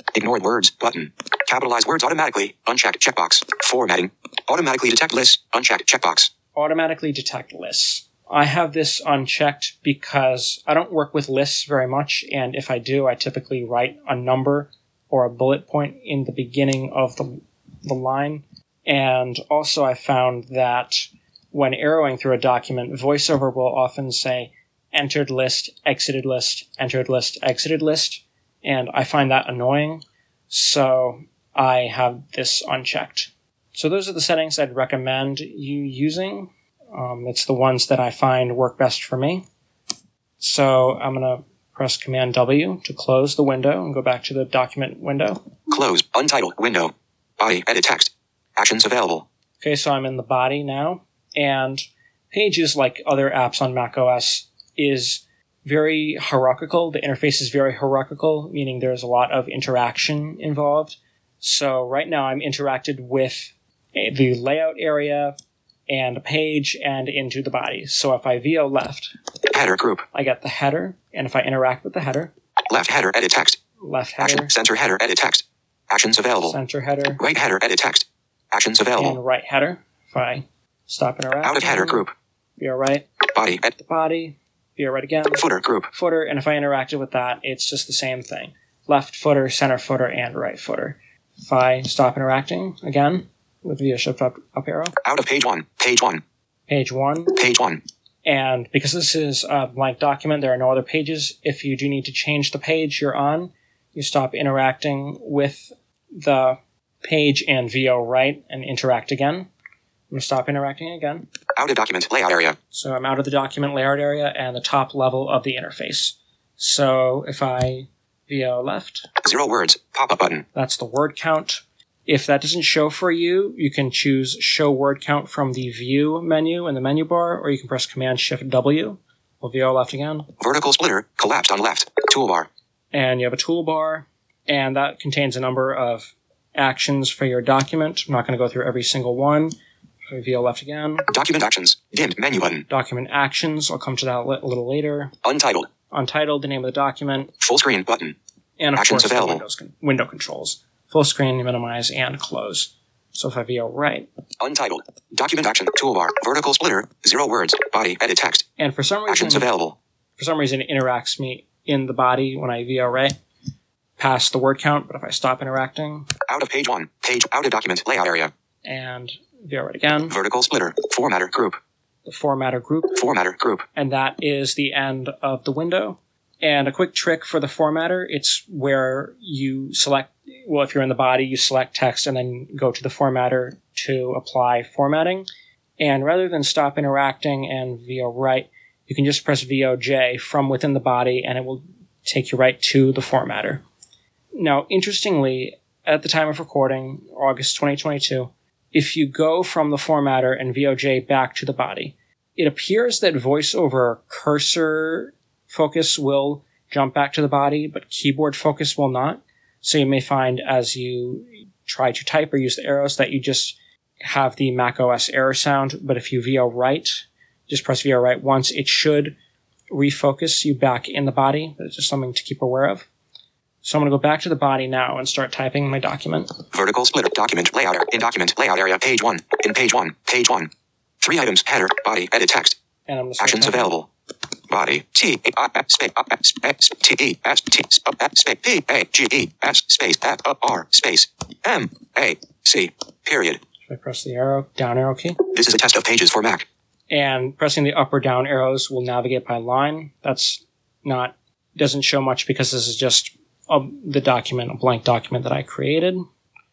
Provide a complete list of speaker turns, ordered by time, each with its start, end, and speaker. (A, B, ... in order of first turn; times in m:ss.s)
0:00.2-0:06.3 A
0:06.6-0:39.4 B
0:40.4-0:45.5 B
0:45.7-0:49.3 A
0:49.6-1:05.4 B
1:05.9-1:09.1 B
1:09.5-1:10.1 A
1:10.1-1:12.3 B
1:12.7-1:13.6 A
1:13.8-1:14.5 B
1:14.2-1:16.6 A
1:16.4-1:17.2 B
1:17.2-1:19.2 A
1:19.0-1:22.1 B
1:21.4-1:22.1 A
1:22.6-1:23.1 B
1:23.3-1:23.7 A
1:23.7-1:35.0 B
1:25.4-1:25.9 A
1:35.0-1:36.2 A
1:36.7-1:37.4 B
1:37.4-1:37.8 A
1:38.2-1:49.5 B
1:50.1-1:51.3 B
1:51.6-1:52.6 A
1:52.7-1:59.1 B
1:59.2-2:00.5 A
2:00.6-2:10.3 B
2:10.4-2:12.5 A
2:12.9-2:19.6 B
2:20.1-2:21.1 B
2:21.1-2:22.7 A
2:22.7-2:25.1 B
2:25.2-2:25.7 A
2:25.9-2:27.3 B
2:27.4-2:28.2 A
2:28.6-2:34.1 B
2:28.8-2:29.4 A
2:34.4-2:38.4 A
2:38.6-2:39.5 B
2:39.1-2:39.8 A
2:40.2-2:43.2 B
2:44.0-2:46.1 B
2:46.3-2:48.3 A
2:48.6-2:50.2 B
2:50.1-2:51.6 A
2:52.0-2:53.0 B
2:52.9-2:53.7 A
2:53.8-3:05.3 B
3:05.8-3:13.6 B
3:14.4-3:39.2 B
3:39.7-3:42.9 B
3:43.6-3:46.4 B
3:46.5-3:52.6 A
3:52.9-3:53.7 B
3:53.2-3:53.9 A
3:54.5-4:03.4 A
4:03.7-4:05.2 B
4:05.3-4:06.5 A
4:06.9-4:16.0 B